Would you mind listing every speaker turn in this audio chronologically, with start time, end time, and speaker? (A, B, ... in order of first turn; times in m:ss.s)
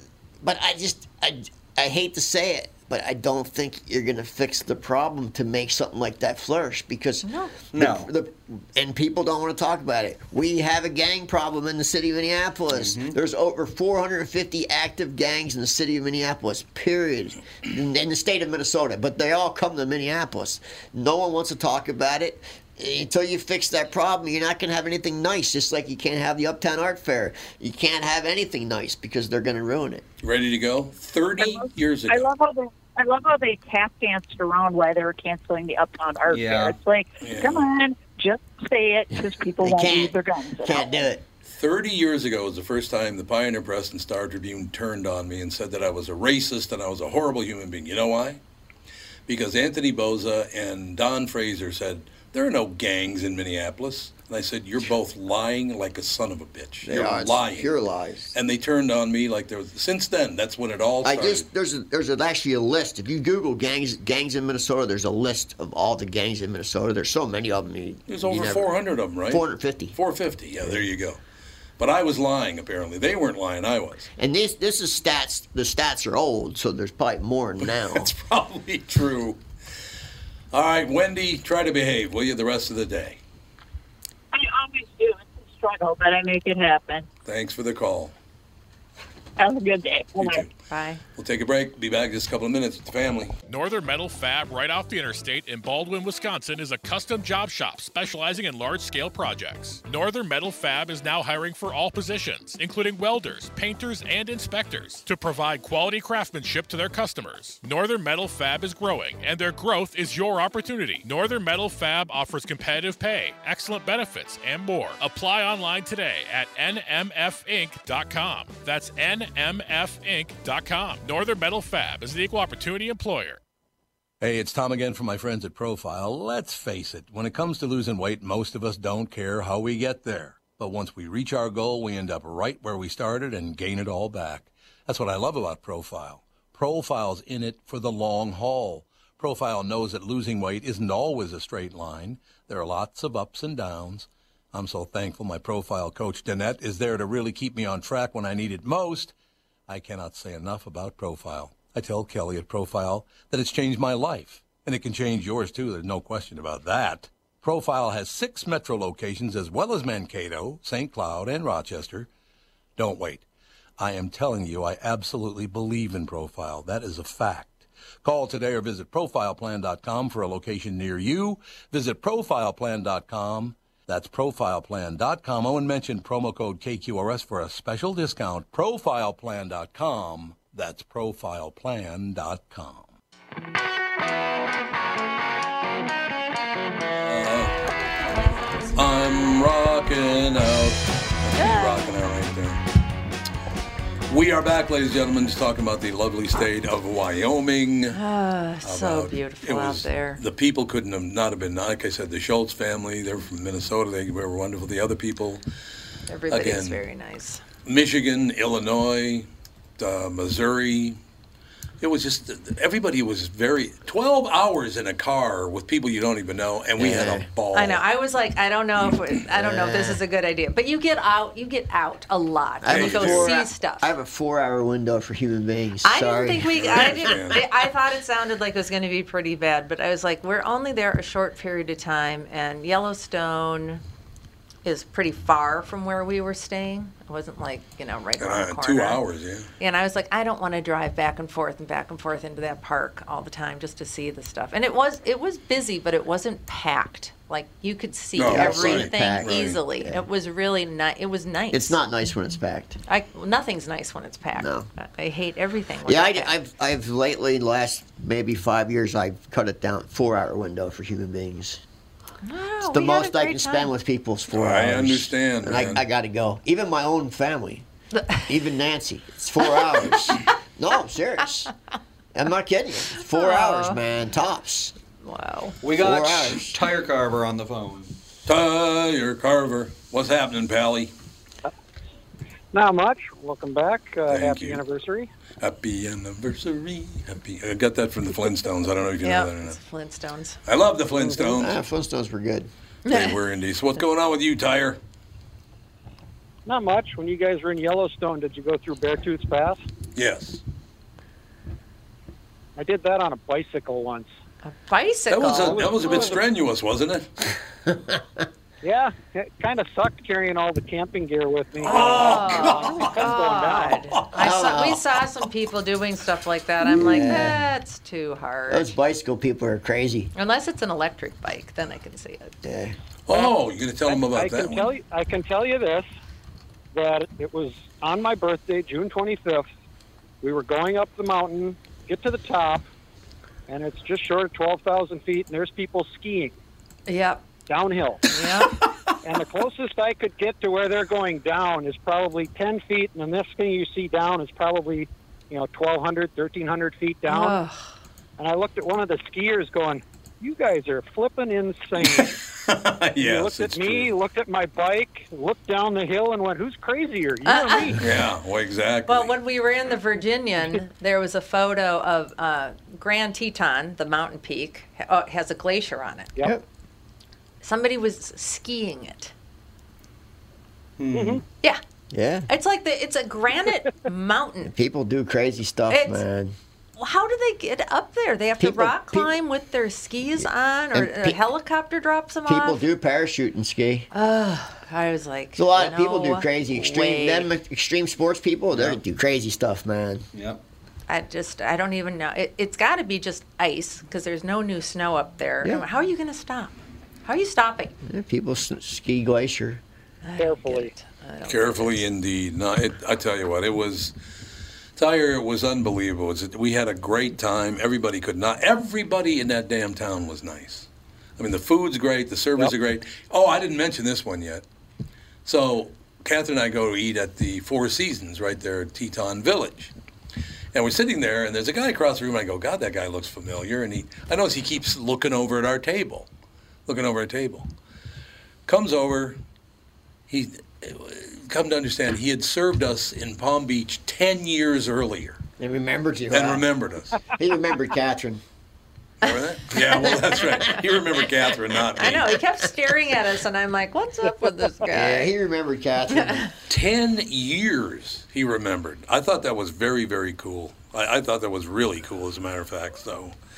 0:00.4-0:30.0 A
0:07.2-0:07.6 B
0:07.7-0:08.1 C
0:12.7-0:13.2 C
0:30.2-0:32.3 D
0:31.4-0:41.0 E
0:36.3-0:36.8 C
0:37.2-0:37.7 D
0:39.6-0:41.2 A
0:41.4-0:48.4 D
0:49.3-0:57.7 D
0:56.8-0:58.4 A
0:58.3-1:01.5 D
1:01.0-1:08.7 A
1:08.1-1:11.2 D
1:09.3-1:10.0 A
1:11.8-1:14.1 D
1:14.2-1:18.1 A
1:17.6-1:19.4 D
1:20.5-1:23.2 D
1:24.3-1:27.1 E
1:27.2-1:28.1 D
1:29.4-1:30.5 E
1:30.2-1:30.5 D
1:30.7-1:31.0 B
1:31.2-1:33.4 D
1:33.5-2:03.4 F
2:04.2-2:29.1 D
2:29.7-2:42.1 D
2:42.8-2:43.2 D
2:43.8-3:02.9 D
3:07.0-3:07.6 D
3:08.7-3:12.6 D
3:11.4-3:11.9 B
3:14.1-3:18.0 D
3:17.9-3:20.2 B
3:18.6-3:25.4 D
3:26.1-3:27.4 B
3:26.3-3:26.8 D
3:27.6-3:29.3 D
3:29.8-3:31.0 D
3:31.8-3:37.8 D
3:36.8-3:37.3 A
3:37.5-3:43.9 B
3:39.3-3:40.0 A
3:42.6-3:47.6 A
3:42.7-3:43.3 D
3:45.8-3:53.8 B
3:46.6-3:47.4 D
3:54.6-3:59.0 B
3:58.2-3:59.5 D
3:59.6-4:11.8 B
4:08.2-4:09.6 D
4:08.2-4:10.0 A
4:11.5-4:12.8 A
4:12.9-4:16.3 B
4:14.4-4:14.7 A
4:15.8-4:21.6 A
4:22.2-4:23.7 B
4:22.6-4:27.7 A
4:24.3-4:25.8 D
4:28.0-4:28.3 B
4:28.2-4:31.5 A
4:29.8-4:30.2 B
4:32.1-4:34.8 A
4:33.0-4:33.8 B
4:35.0-4:35.6 B
4:35.6-4:37.9 C
4:35.8-4:36.6 A
4:38.3-4:40.9 D
4:42.5-4:45.1 G
4:44.1-4:44.6 D
4:45.4-4:49.6 D
4:49.0-4:50.4 B
4:50.5-4:51.6 D
4:51.2-4:52.5 A
4:52.9-4:53.2 B
4:52.9-4:54.8 D
4:56.5-4:59.6 G
5:00.0-5:00.4 D
5:02.6-5:04.1 G
5:04.4-5:06.2 B
5:05.1-5:07.3 D
5:05.3-5:06.2 G
5:07.7-5:08.2 A
5:08.6-5:13.8 G
5:11.6-5:13.0 D
5:11.7-5:18.7 B
5:14.2-5:14.9 A
5:16.6-5:17.5 A
5:18.5-5:20.1 A
5:20.2-5:22.3 B
5:22.4-5:22.8 A
5:23.1-5:24.7 D
5:23.9-5:25.9 G
5:26.7-5:29.5 G
5:30.2-5:32.7 G
5:33.5-5:36.4 G
5:36.9-5:37.2 B
5:37.5-5:38.0 G
5:38.1-5:38.6 B
5:39.0-5:47.4 G
5:47.1-5:47.6 B
5:48.2-5:52.2 G
5:51.8-5:53.9 D
5:53.0-5:57.8 G
5:57.2-5:57.8 B
5:57.8-5:59.1 D
5:58.9-6:06.1 B
6:07.4-6:09.1 B
6:10.8-6:11.2 C
6:10.9-6:11.2 G
6:11.9-6:12.3 A
6:12.3-6:14.5 B
6:14.4-6:16.4 A
6:15.7-6:16.0 B
6:16.8-6:22.6 B
6:18.4-6:19.2 A
6:20.2-6:21.2 A
6:22.3-6:23.9 A
6:23.9-6:27.3 B
6:25.4-6:30.0 A
6:28.5-6:28.8 C
6:30.1-6:30.4 C
6:30.9-6:37.8 B
6:37.8-6:39.6 A
6:40.0-6:41.8 B
6:40.2-6:40.7 G
6:41.3-6:43.9 D
6:44.8-6:54.4 D
6:55.2-6:59.7 D
7:00.5-7:06.1 D
7:06.7-7:07.5 D
7:08.5-7:09.2 D
7:10.1-7:15.2 D
7:15.4-7:16.5 A
7:16.1-7:17.0 D
7:17.1-7:18.2 A
7:19.0-7:22.2 D
7:19.1-7:20.5 B
7:21.8-7:25.1 B
7:24.7-7:26.3 A
7:25.9-7:26.3 B
7:26.5-7:33.2 D